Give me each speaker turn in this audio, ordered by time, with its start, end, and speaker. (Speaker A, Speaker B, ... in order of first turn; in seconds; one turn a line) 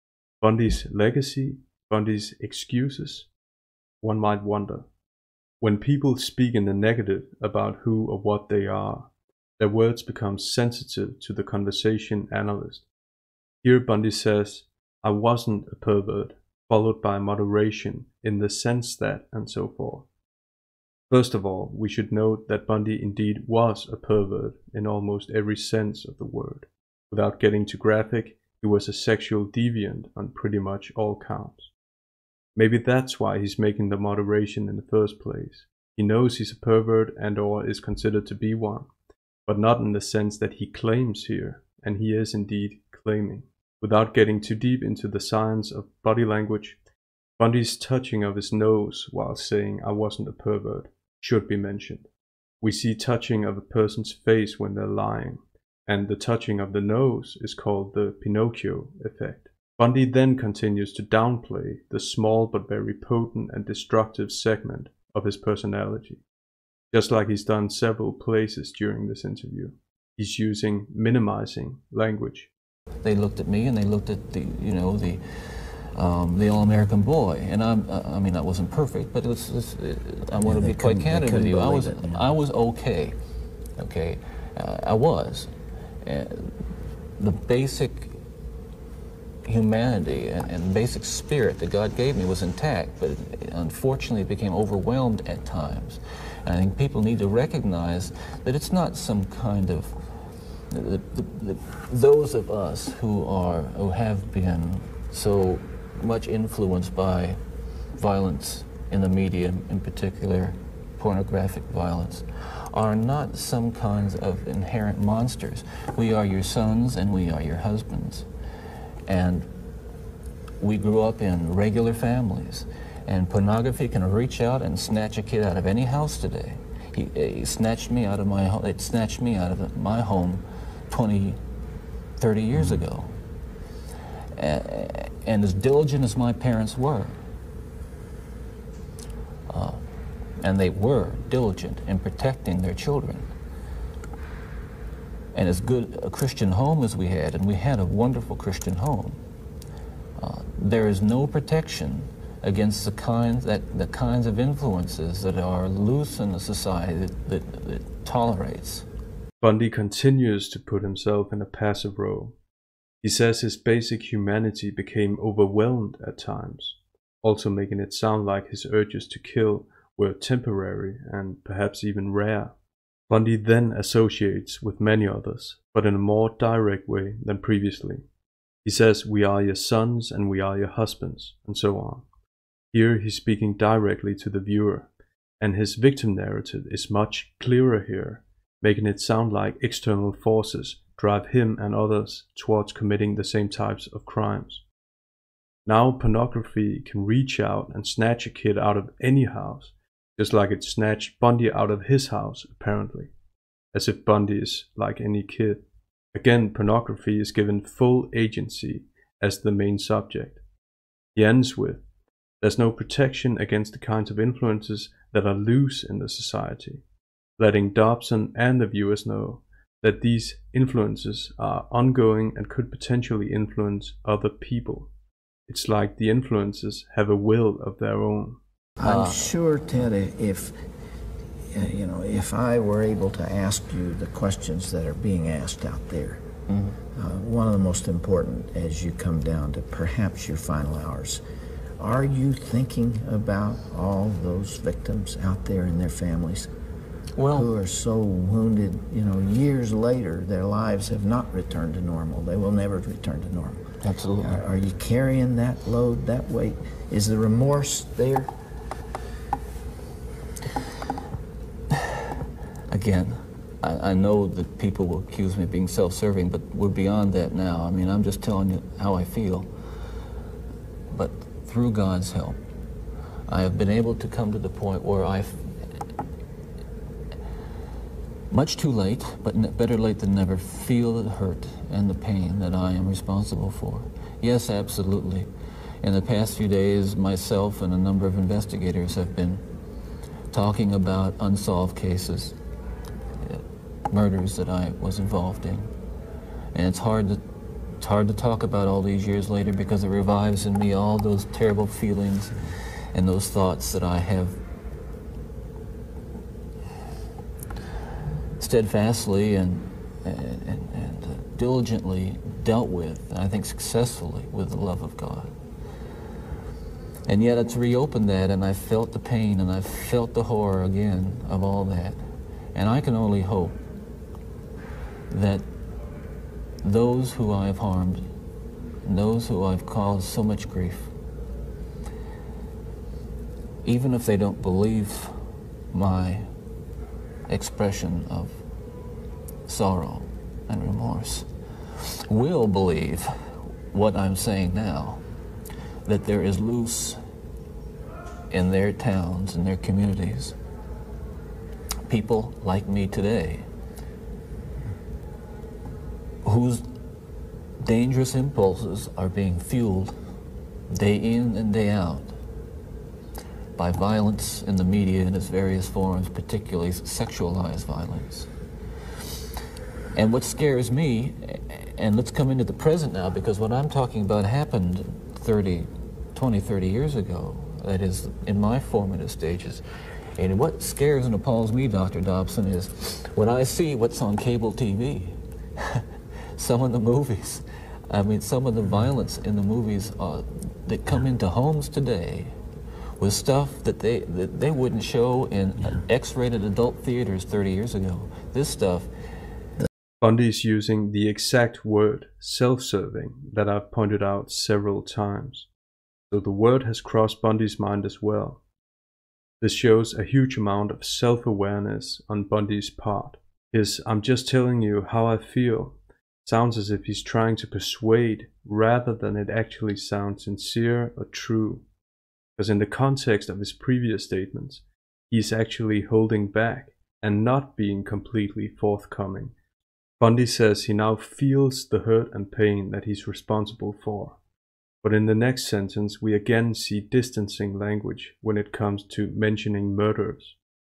Speaker A: 0.4-3.3
Speaker A: 4.0-4.8
Speaker A: 5.6-12.8
Speaker A: 13.6-20.1
Speaker A: 21.1-31.7
Speaker A: 32.5-38.9
Speaker A: 39.5-46.8
Speaker A: 47.4-52.1
Speaker A: 52.6-66.2
Speaker A: 66.9-72.5
Speaker B: 73.0-83.1
Speaker C: 80.4-82.2
Speaker B: 83.8-85.5
Speaker B: 86.0-88.2
Speaker B: 89.4-100.0
Speaker B: 100.7-107.4
Speaker B: 107.9-118.3
Speaker B: 119.0-119.5
Speaker B: 120.6-131.4
Speaker B: 132.2-133.2
Speaker B: 134.3-137.2
Speaker B: 139.5-139.8
Speaker B: 140.4-143.3
Speaker B: 145.3-149.2
Speaker B: 150.2-158.8
Speaker A: 159.4-162.3
Speaker A: 163.0-172.5
Speaker A: 173.1-178.0
Speaker A: 178.6-182.1
Speaker A: 182.7-184.9
Speaker A: 185.4-194.6
Speaker A: 195.6-203.1
Speaker A: 203.7-205.6
Speaker A: 206.1-210.4
Speaker A: 211.1-211.8
Speaker A: 212.4-216.8
Speaker A: 217.4-224.9
Speaker A: 225.5-228.4
Speaker C: 228.8-230.5
Speaker B: 228.8-229.3
Speaker C: 231.5-236.2
Speaker B: 236.5-236.8
Speaker C: 236.9-241.2
Speaker C: 241.8-246.5
Speaker B: 247.2-247.5
Speaker C: 247.3-253.6
Speaker B: 253.8-254.4
Speaker C: 254.2-258.3
Speaker B: 262.7-269.5
Speaker B: 270.9-272.4
Speaker B: 273.3-275.6
Speaker B: 278.3-285.3
Speaker B: 285.8-289.4
Speaker B: 290.3-292.4
Speaker B: 293.2-295.7
Speaker B: 296.5-297.2
Speaker B: 297.8-304.4
Speaker B: 308.4-315.3
Speaker B: 317.1-322.0
Speaker B: 322.5-323.6
Speaker B: 325.1-325.5
Speaker B: 326.6-328.1
Speaker B: 328.8-330.9
Speaker B: 333.6-335.2
Speaker B: 335.7-336.3
Speaker B: 337.3-338.4
Speaker B: 339.5-343.1
Speaker B: 343.7-345.0
Speaker B: 345.8-347.0
Speaker B: 348.3-350.4
Speaker B: 351.9-353.4
Speaker B: 356.2-356.7
Speaker B: 357.6-359.9
Speaker B: 360.7-362.1
Speaker B: 363.6-368.3
Speaker B: 369.9-379.6
Speaker B: 380.2-392.3
Speaker B: 393.0-398.9
Speaker A: 400.0-405.5
Speaker A: 406.1-408.4
Speaker A: 409.4-421.6
Speaker A: 422.4-429.3
Speaker A: 430.0-434.2
Speaker A: 434.8-440.4